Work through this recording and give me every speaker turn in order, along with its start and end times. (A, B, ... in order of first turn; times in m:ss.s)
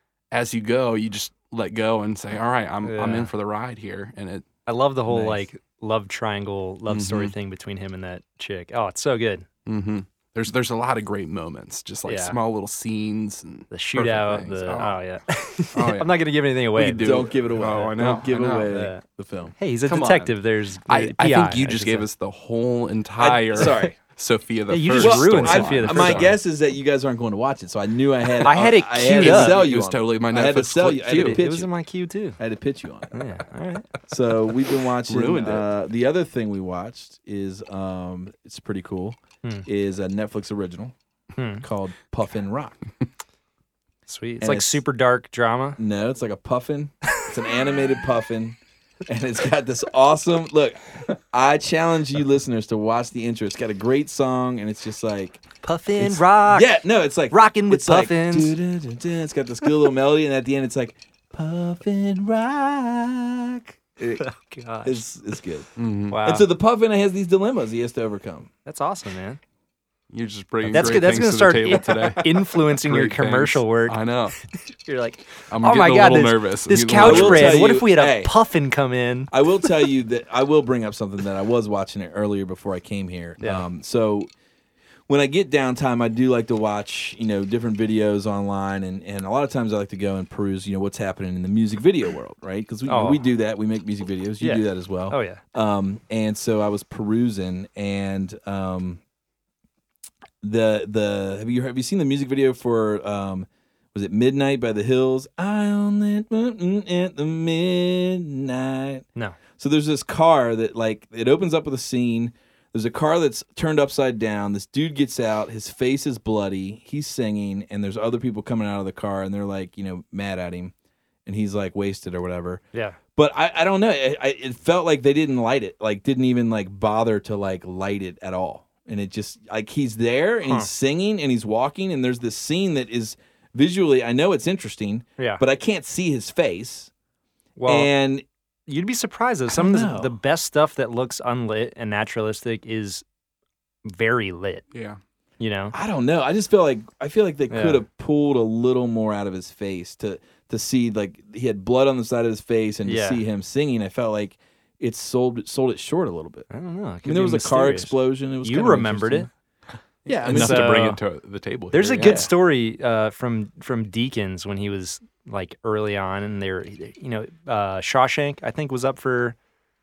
0:00.3-0:04.4 A
0:02.8-0:03.3 B
0:04.6-0:09.4 B
0:05.1-0:05.4 C
0:06.9-0:07.3 A
0:09.6-0:15.0 A
0:12.0-0:12.4 B
0:13.7-0:17.2 B
0:15.7-0:18.7 A
0:17.0-0:19.5 C
0:18.6-0:19.0 B
0:19.6-0:22.1 B
0:19.8-0:20.3 A
0:20.8-0:26.3 A
0:23.2-0:23.9 C
0:23.6-0:23.9 B
0:24.7-0:26.3 B
0:25.0-0:31.7 C
0:28.4-0:29.6 B
0:29.1-0:31.4 A
0:31.1-0:32.4 B
0:32.4-0:33.2 C
0:33.1-0:33.9 B
0:34.1-0:40.9 C
0:35.0-0:35.7 A
0:41.4-0:41.6 B
0:41.6-0:42.8 C
0:44.1-0:45.8 B
0:44.4-0:44.8 C
0:45.8-0:55.4 C
0:55.6-0:56.7 B
0:56.0-1:04.2 C
0:57.3-0:58.6 B
1:04.1-1:05.0 B
1:04.8-1:05.7 C
1:05.8-1:06.2 A
1:06.1-1:06.4 B
1:06.2-1:08.5 C
1:08.6-1:09.4 B
1:10.1-1:14.4 A
1:10.6-1:11.1 C
1:10.7-1:19.7 B
1:11.9-1:12.2 C
1:15.5-1:17.6 A
1:17.0-1:18.3 C
1:19.3-1:24.3 C
1:23.4-1:23.6 B
1:25.1-1:39.0 C
1:32.9-1:33.2 B
1:34.4-1:35.4 B
1:40.4-1:49.0 C
1:49.6-2:00.7 C
2:01.2-2:02.6 C
2:02.7-2:03.0 B
2:03.2-2:16.9 C
2:10.4-2:10.7 B
2:15.2-2:15.4 B
2:17.6-2:17.9 B
2:17.7-2:18.2 C
2:18.7-2:23.0 B
2:19.5-2:20.1 C
2:23.8-2:24.6 B
2:24.7-2:25.0 A
2:25.4-2:25.7 B
2:25.7-2:36.5 C
2:27.5-2:27.8 B
2:32.8-2:33.2 B
2:36.5-2:39.3 B
2:37.0-2:39.3 C
2:40.0-2:40.7 C
2:40.1-2:42.2 A
2:40.2-2:41.0 B
2:41.7-2:49.4 B
2:42.0-2:42.3 C